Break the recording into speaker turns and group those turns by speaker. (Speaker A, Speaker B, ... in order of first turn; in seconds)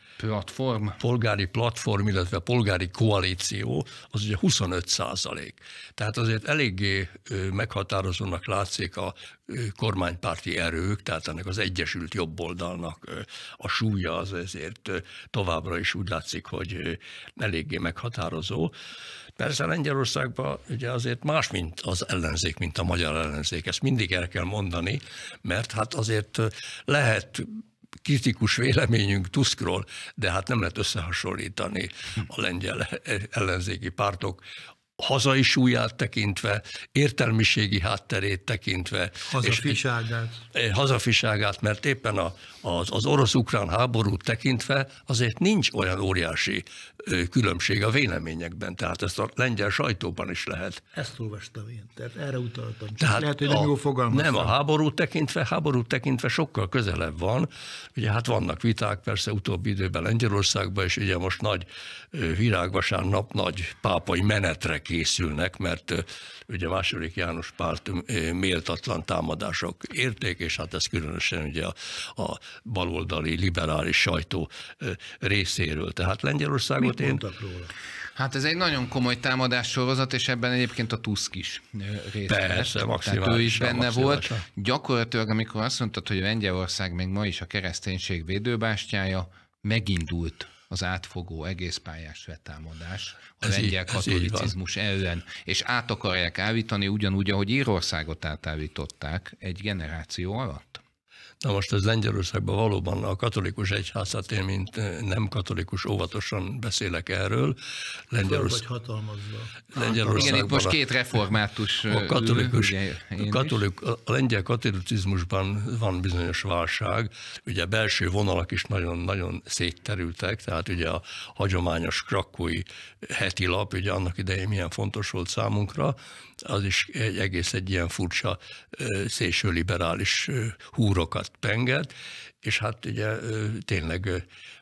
Speaker A: 0.2-1.0, 78.1-100.8, 110.1-113.6
Speaker B: 1.0-18.7, 19.4-34.4, 35.0-39.8, 40.5-50.8, 53.0-77.2, 82.3-84.4, 93.4-94.5, 101.4-107.6, 108.1-108.6, 109.7-110.8, 111.9-131.9, 132.4-134.2
Speaker C: 39.3-40.4, 50.9-54.5, 76.8-77.7, 108.2-110.6